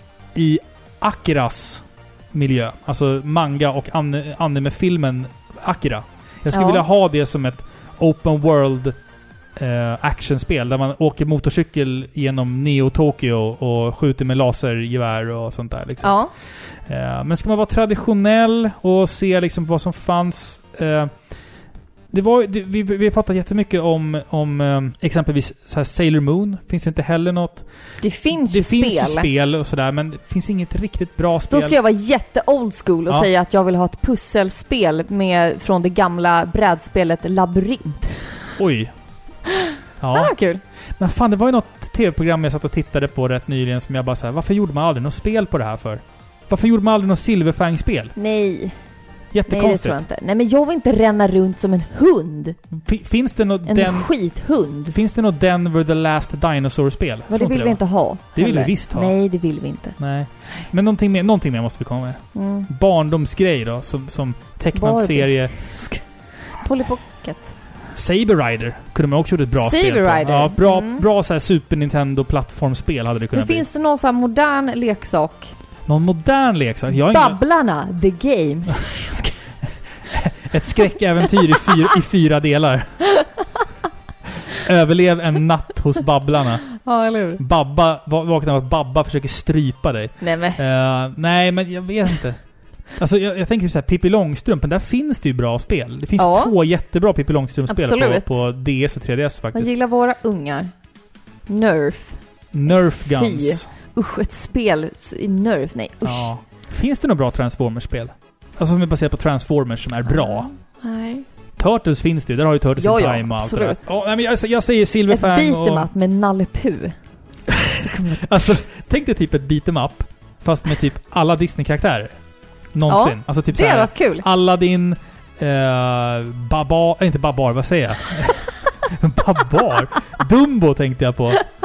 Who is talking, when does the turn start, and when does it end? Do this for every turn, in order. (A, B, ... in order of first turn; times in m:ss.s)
0:00.3-0:09.0 A
0:06.5-0:06.8 B
0:09.6-0:16.2 A
0:16.0-0:16.3 B
0:16.8-0:21.1 A
0:22.1-0:27.7 A
0:28.0-0:29.3 B
0:28.3-0:31.8 A
0:31.5-0:38.5 B
0:38.6-0:38.9 A
0:39.5-0:40.6 B
0:40.0-0:40.3 A
0:41.0-0:48.1 A
0:48.1-0:48.8 B
0:49.3-0:50.0 A
0:49.5-0:52.6 B
0:52.7-0:54.1 A
0:53.6-0:54.9 B
0:54.9-0:57.8 A
0:57.3-1:00.0 B
0:58.3-0:59.1 A
1:00.0-1:05.5 A
1:02.3-1:02.7 B
1:04.7-1:06.0 B
1:06.6-1:07.5 B
1:07.9-1:13.6 A
1:09.6-1:11.0 B
1:13.3-1:15.5 B
1:15.9-1:17.4 A
1:17.0-1:19.3 B
1:20.1-1:23.0 A
1:24.4-1:26.7 A
1:26.8-1:27.4 B
1:27.4-1:32.4 A
1:30.2-1:30.6 B
1:32.9-1:39.7 A
1:36.2-1:36.5 B
1:37.7-1:38.4 B
1:39.5-1:40.7 B
1:41.5-1:42.2 B
1:42.5-1:43.7 A
1:43.0-1:46.3 B
1:46.0-1:50.5 A
1:50.1-1:51.2 B
1:51.6-1:55.9 A
1:52.8-1:53.8 B
1:55.1-1:56.9 B
1:57.5-2:02.1 A
1:57.9-1:58.2 B
2:02.7-2:11.4 A
2:02.9-2:04.2 B